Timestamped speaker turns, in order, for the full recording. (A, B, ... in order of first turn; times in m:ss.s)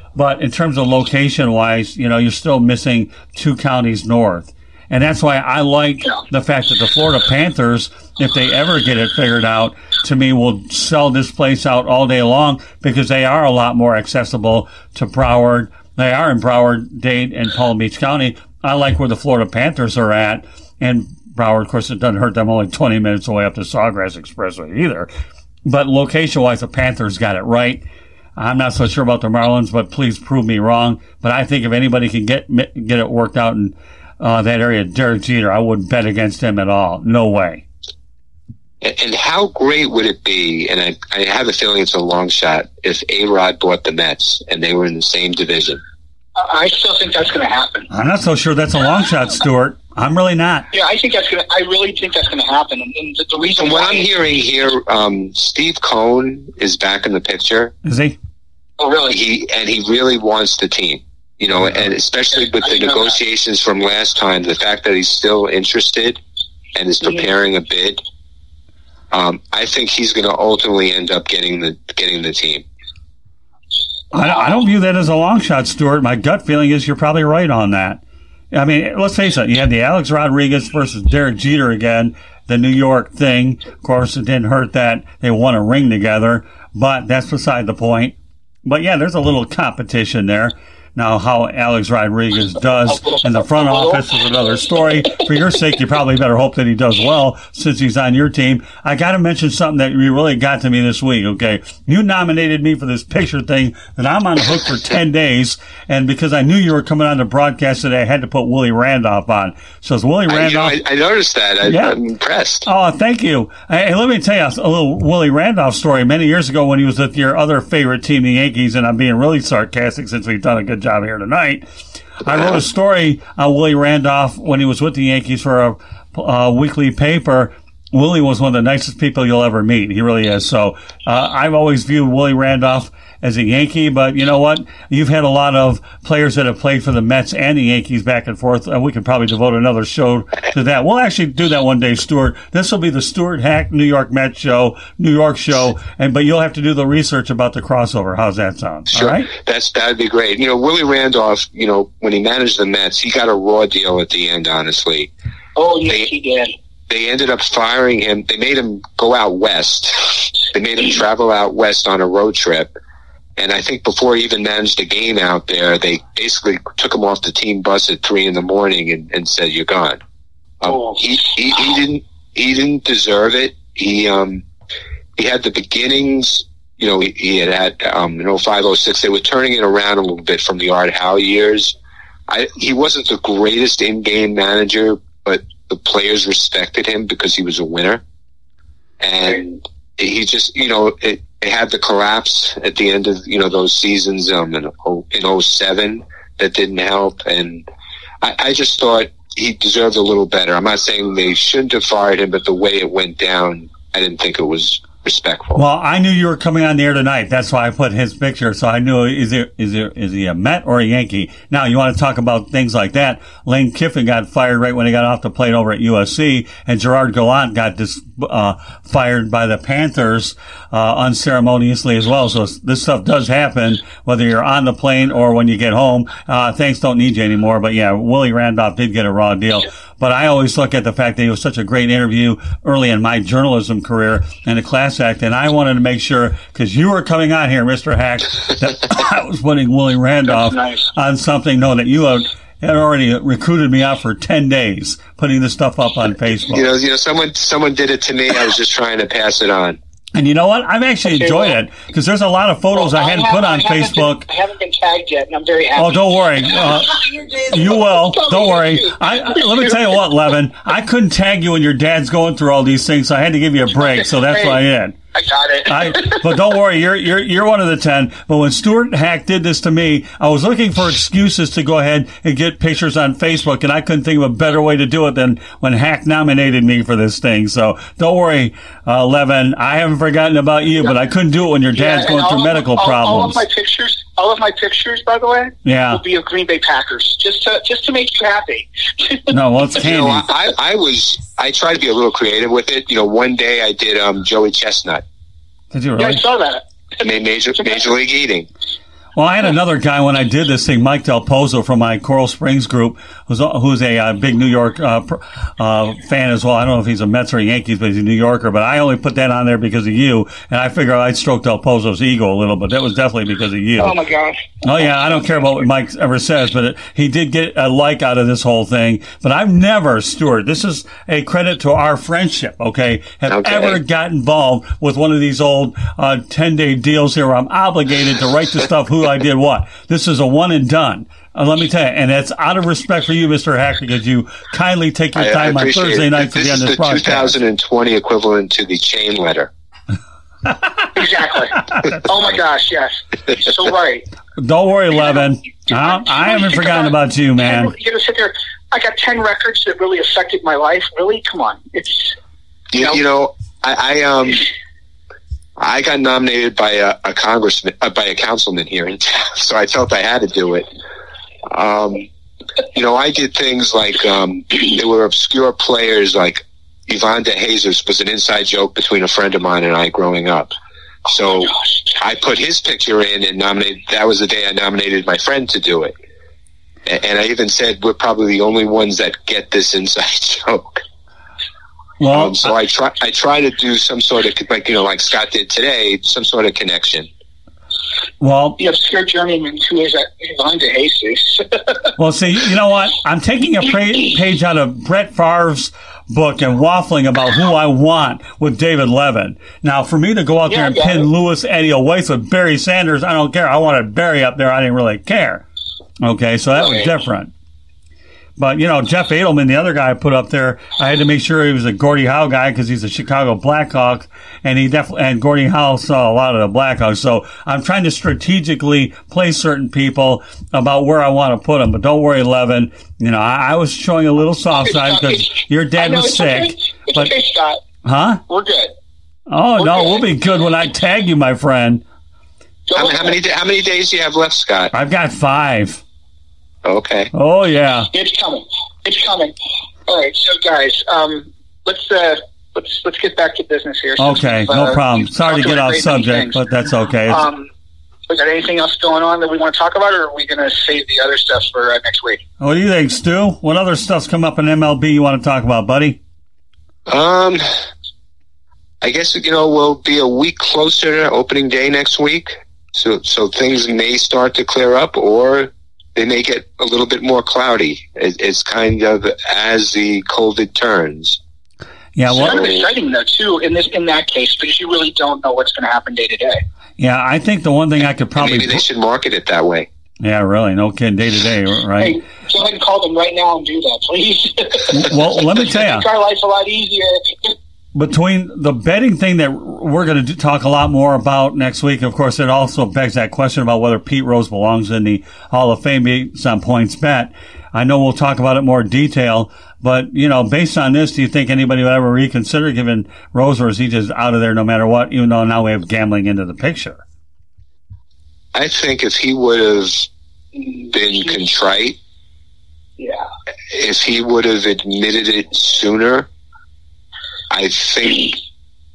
0:00.2-0:25.1 A
0:25.6-0:27.8 A
0:28.4-0:37.6 A
0:38.8-0:45.8 B
0:46.4-0:47.9 C
0:47.9-0:50.7 A
0:50.7-0:54.1 C
0:53.6-0:57.7 B
0:57.8-0:58.2 A
0:58.8-0:59.2 C
0:59.1-1:06.2 B
1:06.8-1:08.0 B
1:09.1-1:12.6 B
1:14.1-1:18.0 A
1:18.5-1:50.8 A
1:50.3-1:52.7 B
1:51.6-1:52.0 A
1:52.6-2:01.6 A
2:02.2-2:29.3 A
2:28.9-2:35.1 B
2:35.6-2:36.5 C
2:36.9-2:42.7 B
2:43.4-2:50.0 B
2:50.6-2:54.4 B
2:55.2-3:01.8 B
3:02.3-3:08.0 B
3:09.0-3:17.6 B
3:18.2-3:25.6 B
3:25.6-4:06.7 A
4:00.3-4:00.9 C
4:06.5-4:09.8 B
4:10.2-4:14.2 A
4:11.1-4:11.6 C
4:12.7-4:19.7 C
4:15.8-4:25.0 A
4:24.2-4:24.6 C
4:25.2-4:26.2 C
4:25.7-4:43.4 A
4:41.8-4:49.4 C
4:45.6-4:46.0 A
4:49.3-4:50.3 A
4:49.8-4:55.0 B
4:55.7-4:56.2 A
4:56.0-4:56.6 C
4:57.0-4:58.5 B
4:59.2-5:14.0 A
5:13.8-5:14.9 C
5:14.6-5:37.3 A
5:23.3-5:23.8 B
5:35.2-5:39.5 B
5:40.9-5:44.1 C
5:44.4-5:47.7 A
5:45.7-5:52.2 C
5:52.7-5:54.5 B
5:55.6-6:00.7 B
6:01.5-6:02.1 B
6:02.7-6:10.5 B
6:11.1-6:15.9 B
6:16.8-6:20.8 B
6:22.0-6:22.5 A
6:22.1-6:27.1 B
6:28.2-6:28.6 A
6:28.6-6:31.9 C
6:32.0-6:45.4 A
6:40.5-6:41.1 C
6:46.0-6:47.3 A
6:46.6-6:46.9 C
6:48.4-7:07.1 A
7:04.6-7:07.6 C
7:07.8-7:08.2 A
7:08.3-7:08.7 C
7:09.3-7:11.8 A
7:09.6-7:10.0 C
7:12.7-7:13.2 C
7:12.8-7:14.7 B
7:14.7-7:15.8 A
7:16.6-7:17.1 B
7:17.1-7:17.9 A
7:17.9-7:19.4 C
7:19.9-7:26.4 C
7:24.0-7:27.3 A
7:27.1-7:27.5 C
7:28.1-7:32.2 C
7:32.4-7:36.0 A
7:36.9-7:37.5 B
7:38.8-7:51.2 B
7:52.0-7:52.4 A
7:52.1-7:52.7 B
7:52.1-7:56.4 C
7:56.8-7:58.6 A
7:58.2-7:59.7 B
8:00.0-8:02.0 A
8:01.8-8:07.3 C
8:04.7-8:05.9 A
8:07.7-8:26.8 A
8:28.3-8:29.9 B
8:30.7-8:31.8 B
8:32.8-8:33.1 C
8:33.5-8:36.1 B
8:37.3-8:38.2 B